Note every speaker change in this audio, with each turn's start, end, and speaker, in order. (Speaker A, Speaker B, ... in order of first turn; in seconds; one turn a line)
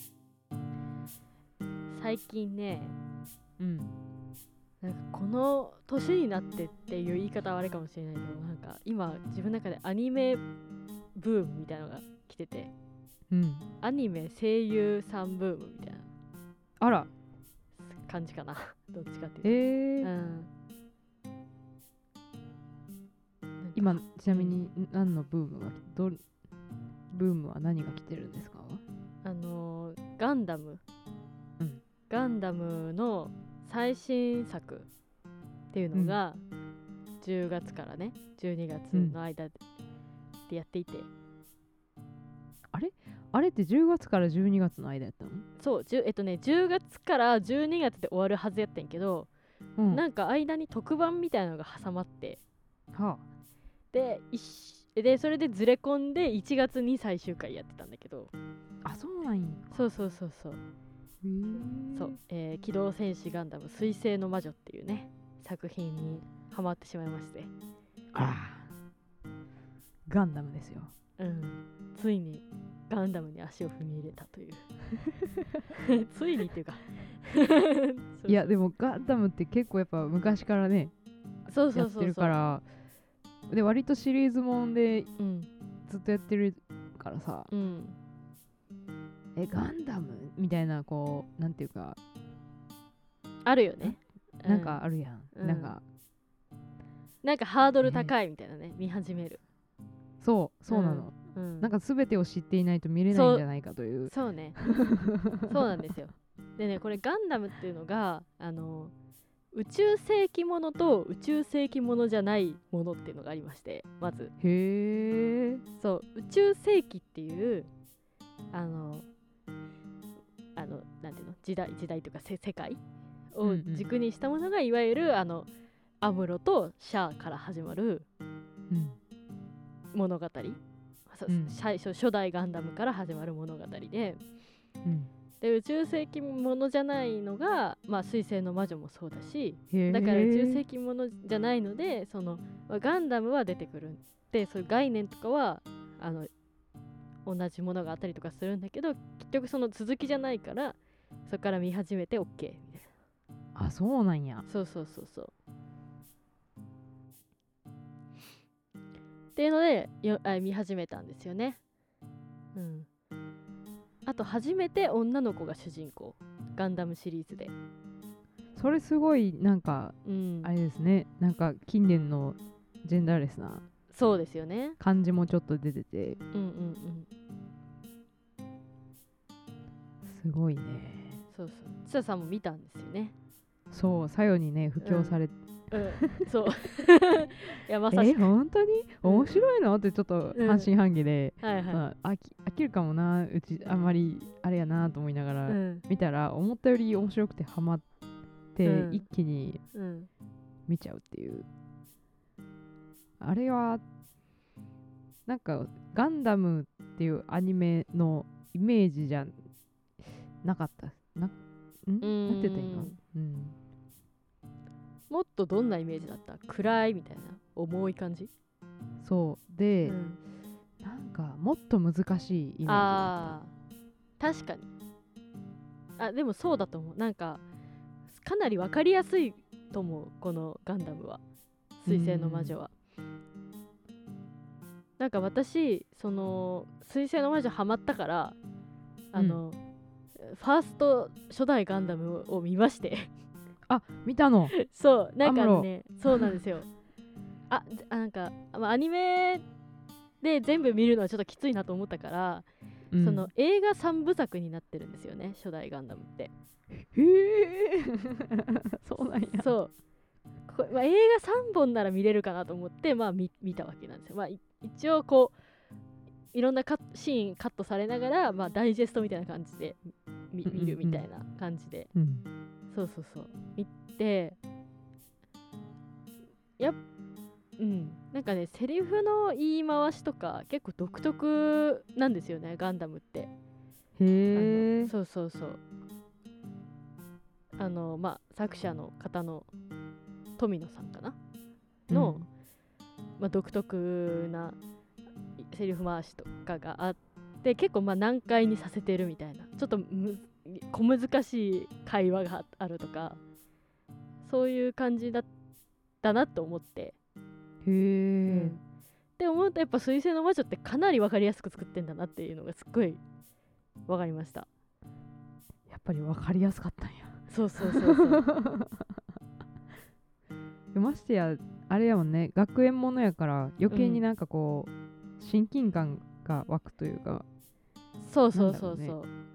Speaker A: 1.9-3.0
Speaker B: 3.6-3.9
Speaker A: 4.8-10.4
Speaker A: 11.2-12.7
Speaker B: 13.3-13.7
Speaker A: 13.8-16.1
Speaker B: 16.8-17.1
Speaker A: 17.9-20.5
Speaker B: 19.4-20.1
Speaker A: 23.6-24.6
Speaker B: 23.7-26.2
Speaker B: 27.1-28.8
Speaker A: 29.2-30.8
Speaker A: 32.1-34.9
Speaker A: 35.7-36.4
Speaker B: 35.9-36.2
Speaker A: 37.2-39.6
Speaker A: 40.4-41.1
Speaker B: 42.7-45.5
Speaker A: 45.6-49.3
Speaker B: 49.8-50.0
Speaker A: 49.9-52.4
Speaker B: 52.9-53.2
Speaker A: 53.9-58.3
Speaker B: 58.8-59.9
Speaker A: 59.7-60.6
Speaker B: 61.2-62.1
Speaker A: 61.8-67.5
Speaker B: 68.1-68.7
Speaker B: 70.1-70.9
Speaker A: 71.2-74.7
Speaker A: 75.9-78.5
Speaker B: 78.3-80.9
Speaker A: 81.5-82.4
Speaker B: 81.7-82.6
Speaker B: 83.5-85.1
Speaker A: 85.2-85.5
Speaker B: 85.9-87.5
Speaker A: 87.5-88.0
Speaker B: 89.3-92.0
Speaker A: 93.4-95.8
Speaker B: 93.8-95.8
Speaker A: 97.2-99.4
Speaker B: 97.8-98.1
Speaker B: 100.2-104.1
Speaker A: 100.7-101.7
Speaker A: 103.1-103.5
Speaker A: 104.0-108.9
Speaker A: 109.5-114.3
Speaker B: 114.4-115.6
Speaker A: 115.8-117.7
Speaker A: 118.5-119.1
Speaker A: 120.5-125.5
Speaker B: 123.4-123.9
Speaker A: 126.0-128.1
Speaker B: 128.7-129.0
Speaker A: 129.9-134.2
Speaker B: 131.3-131.5
Speaker B: 134.8-135.1
Speaker A: 135.4-146.3
Speaker B: 139.7-140.6
Speaker A: 147.2-152.9
Speaker B: 153.5-154.4
Speaker A: 154.4-155.3
Speaker A: 159.3-161.6
Speaker A: 162.5-162.9
Speaker A: 164.0-167.5
Speaker B: 168.6-173.6
Speaker A: 170.0-170.5
Speaker A: 173.9-174.8
Speaker B: 174.8-176.2
Speaker A: 176.3-177.1
Speaker B: 180.0-181.2
Speaker A: 181.3-183.1
Speaker B: 183.7-185.3
Speaker A: 184.8-185.2
Speaker A: 185.7-188.3
Speaker B: 186.0-186.3
Speaker B: 187.9-197.8
Speaker A: 189.0-189.4
Speaker A: 190.3-190.7
Speaker A: 191.4-191.9
Speaker A: 195.5-195.8
Speaker B: 198.5-199.6
Speaker A: 198.6-199.1
Speaker A: 199.7-200.1
Speaker B: 200.7-201.4
Speaker B: 203.2-203.8
Speaker B: 205.3-209.3
Speaker B: 210.4-213.6
Speaker A: 212.0-213.0
Speaker A: 215.1-218.3
Speaker B: 219.0-220.0
Speaker A: 219.8-220.2
Speaker B: 220.8-223.4
Speaker A: 222.6-223.5
Speaker A: 224.2-224.7
Speaker A: 226.0-227.4
Speaker A: 228.1-231.2
Speaker A: 231.8-232.7
Speaker B: 231.9-232.6
Speaker A: 235.0-238.3
Speaker A: 239.1-239.6
Speaker B: 239.1-239.4
Speaker A: 240.2-243.1
Speaker B: 243.7-244.6
Speaker A: 244.7-246.7
Speaker B: 245.2-245.7
Speaker A: 247.5-249.4
Speaker A: 250.2-252.4
Speaker B: 252.9-253.3
Speaker A: 253.0-256.3
Speaker B: 256.8-259.6
Speaker A: 259.4-259.7
Speaker A: 260.5-265.4
Speaker A: 266.3-271.9
Speaker B: 270.4-271.1
Speaker B: 271.9-272.2
Speaker A: 272.7-274.4
Speaker A: 277.6-283.3
Speaker B: 284.0-284.9
Speaker A: 284.3-285.6
Speaker A: 287.6-289.5
Speaker A: 290.4-291.1
Speaker B: 291.9-292.2
Speaker A: 291.9-292.3
Speaker A: 293.2-294.6
Speaker A: 295.4-303.2
Speaker A: 304.2-305.3
Speaker A: 306.0-306.9
Speaker B: 307.6-308.6
Speaker A: 308.3-308.6
Speaker A: 309.2-313.0
Speaker A: 313.9-314.5
Speaker B: 315.7-318.9
Speaker A: 317.3-318.3
Speaker B: 320.7-327.2
Speaker A: 323.7-324.0
Speaker A: 328.0-329.1
Speaker B: 328.3-329.0